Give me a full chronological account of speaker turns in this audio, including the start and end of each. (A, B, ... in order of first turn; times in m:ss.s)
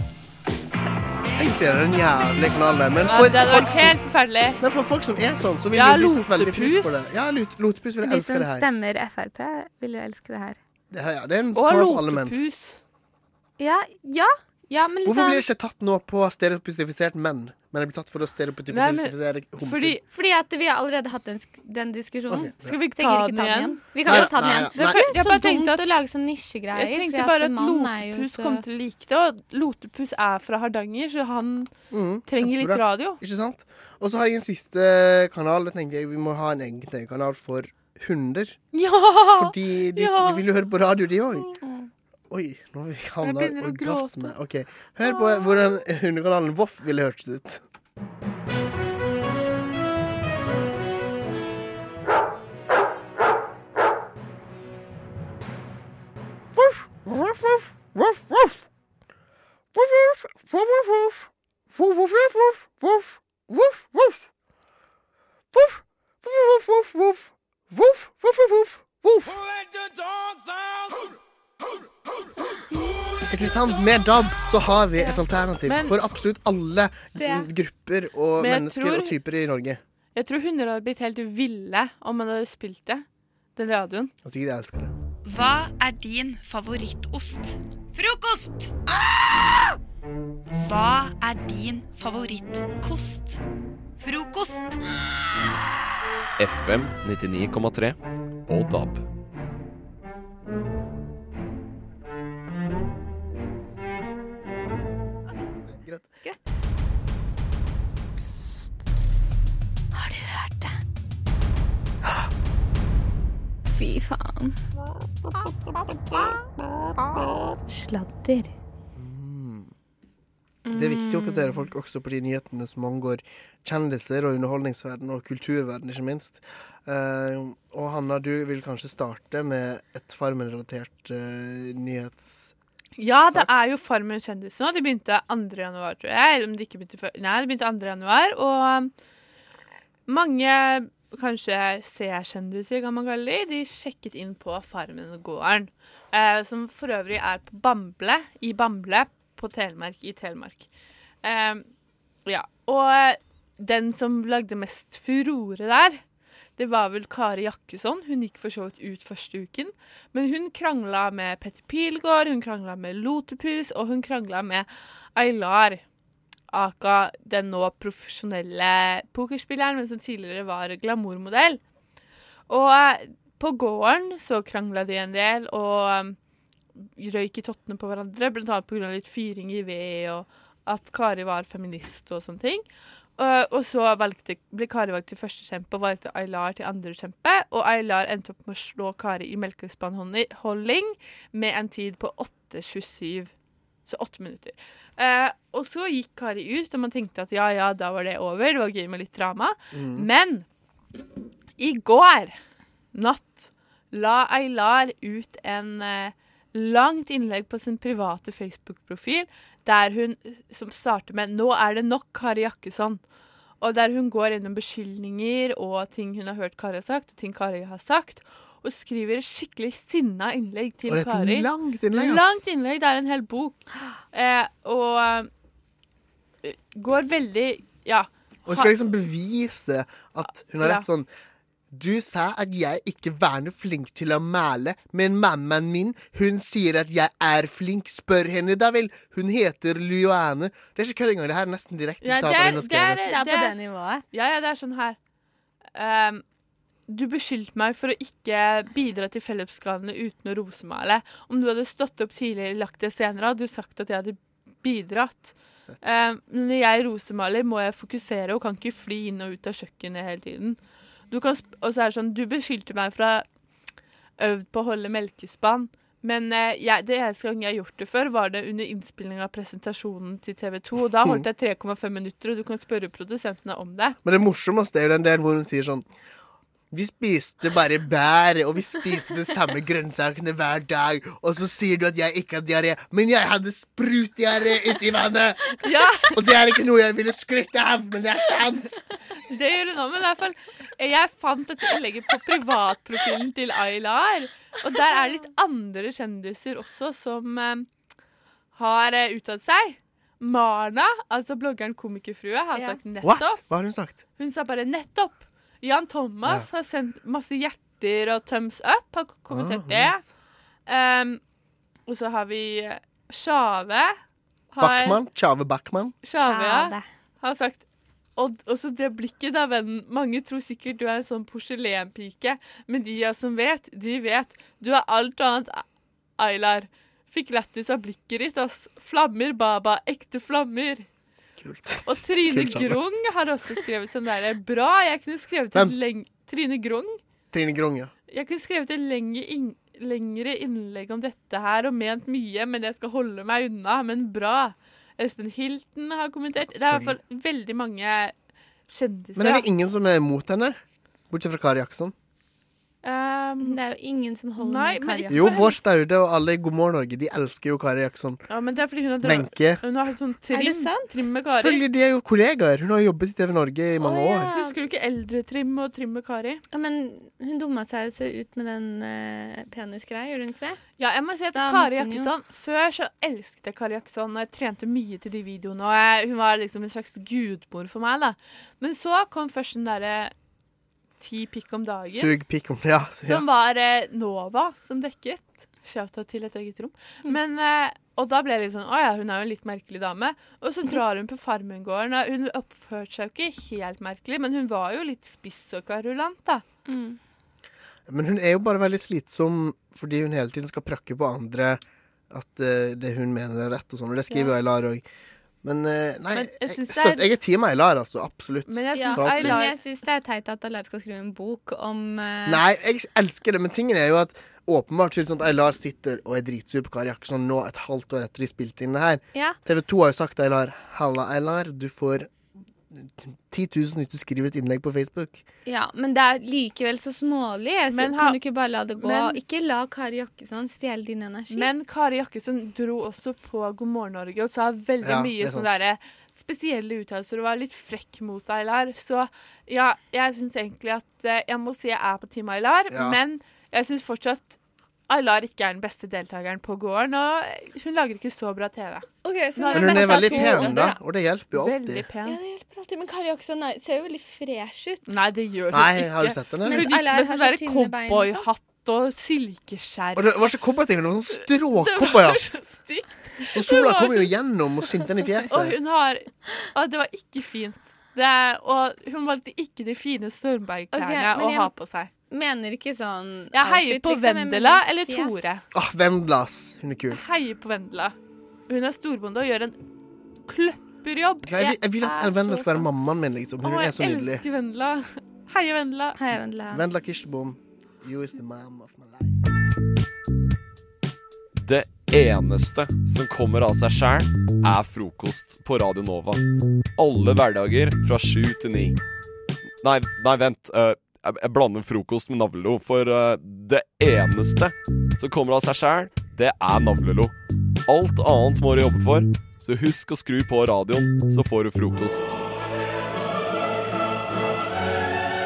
0:01.3-0:04.0 A
0:03.0-0:04.6 B
0:04.6-0:08.6 A
0:05.7-0:07.1 B
0:08.0-0:10.6 C
0:10.9-0:12.4 A
0:11.5-0:12.8 B
0:13.6-0:15.5 C
0:15.0-0:20.0 A
0:18.7-0:20.0 B
0:20.1-0:28.6 C
0:22.3-0:22.7 A
0:22.6-0:25.9 B
0:24.0-0:25.2 A
0:26.7-0:31.7 B
0:31.9-0:38.6 A
0:32.2-0:33.2 B
0:38.7-0:40.5 B
0:39.3-0:41.5 A
0:42.3-0:47.6 A
0:43.2-0:44.4 B
0:45.0-0:45.8 B
0:56.6-0:58.5 A
0:59.8-1:04.2 A
1:05.5-1:09.4 A
1:13.3-1:19.8 A
1:15.6-1:16.0 B
1:17.1-1:17.5 C
1:18.4-1:19.2 B
1:20.1-1:23.0 B
1:23.6-1:24.1 B
1:24.2-1:24.9 A
1:25.2-1:28.7 D
1:30.5-1:33.4 D
1:34.0-1:34.8 D
1:36.4-1:39.0 E
1:45.7-1:46.2 A
1:49.9-1:50.8 C
1:53.7-1:54.6 C
1:57.1-1:58.5 C
1:58.9-1:59.7 A
2:00.6-2:01.7 C
2:00.7-2:12.5 A
2:13.0-2:18.9 B
2:20.1-2:30.7 B
2:31.2-2:31.7 B
2:32.2-2:36.0 B
2:36.6-2:45.8 B
2:46.5-2:51.6 B
2:52.5-2:56.2 B
2:56.8-3:02.6 B
3:03.2-3:13.3 B
3:13.9-3:20.5 B
3:19.7-3:20.1 A
3:21.6-3:22.4 B
3:22.9-3:33.0 B
3:33.6-3:45.3 B
3:40.8-3:42.5 A
3:46.4-3:48.8 B
3:48.4-3:51.1 A
3:50.3-3:50.9 B
3:51.7-4:03.1 A
4:02.0-4:03.5 B
4:03.1-4:04.0 C
4:04.1-4:05.0 B
4:05.7-4:06.2 B
4:06.9-4:20.6 B
4:15.6-4:15.9 A
4:21.1-4:23.2 B
4:24.2-4:34.0 B
4:34.0-4:35.9 A
4:36.7-4:48.8 A
4:45.6-4:46.2 B
4:49.3-4:57.7 B
4:54.8-4:55.1 C
4:58.5-5:03.4 B
5:02.5-5:02.8 C
5:03.0-5:04.0 A
5:04.2-5:10.0 B
5:09.3-5:10.0 A
5:10.6-5:11.2 B
5:11.8-5:14.0 B
5:14.5-5:15.0 B
5:14.6-5:16.0 A
5:16.0-5:17.6 B
5:16.2-5:16.9 C
5:18.2-5:25.6 B
5:26.2-5:30.9 B
5:31.4-5:32.8 A
5:31.8-5:37.0 B
5:37.3-5:37.9 A
5:38.1-5:48.2 B
5:46.4-5:47.0 A
5:48.7-5:49.5 B
5:49.2-5:50.6 A
5:51.1-5:51.9 A
5:52.8-5:53.6 B
5:53.4-5:55.5 C
5:54.4-5:55.5 B
5:55.1-5:58.2 A
5:58.3-6:01.6 B
5:59.0-5:59.6 A
6:00.3-6:01.0 C
6:01.3-6:04.3 A
6:03.8-6:04.6 C
6:04.3-6:06.4 B
6:06.5-6:10.6 C
6:10.8-6:20.1 B
6:11.3-6:12.1 C
6:21.0-6:22.2 B
6:21.9-6:23.2 A
6:23.0-6:36.4 B
6:36.7-6:37.0 C
6:37.9-6:44.8 A
6:44.1-6:44.4 C
6:45.4-6:49.4 A
6:46.1-6:47.2 B
6:48.5-6:49.6 B
6:48.7-6:52.4 C
6:52.2-7:02.1 A
7:02.7-7:05.2 A
7:05.5-7:11.5 C
7:07.7-7:08.2 B
7:08.8-7:09.2 B
7:11.3-7:32.2 B
7:14.8-7:15.6 A
7:22.7-7:23.0 A
7:29.0-7:30.6 C
7:29.5-7:31.9 A
7:32.0-7:35.0 C
7:34.8-7:40.4 B
7:35.5-7:36.7 A
7:36.4-7:38.3 C
7:40.0-7:42.4 A
7:41.0-7:44.1 B
7:43.3-7:45.6 A
7:45.1-7:51.9 B
7:50.7-7:51.5 C
7:52.1-7:55.2 C
7:53.3-7:55.4 B
7:55.5-7:57.0 A
7:56.9-7:57.9 B
7:58.5-7:59.6 B
8:00.3-8:02.7 B
8:01.2-8:04.2 A
8:03.4-8:06.0 B
8:06.0-8:06.7 C
8:06.5-8:09.2 A
8:11.4-8:16.2 E
8:16.8-8:18.8 E
8:19.6-8:27.1 E
8:27.7-8:32.2 E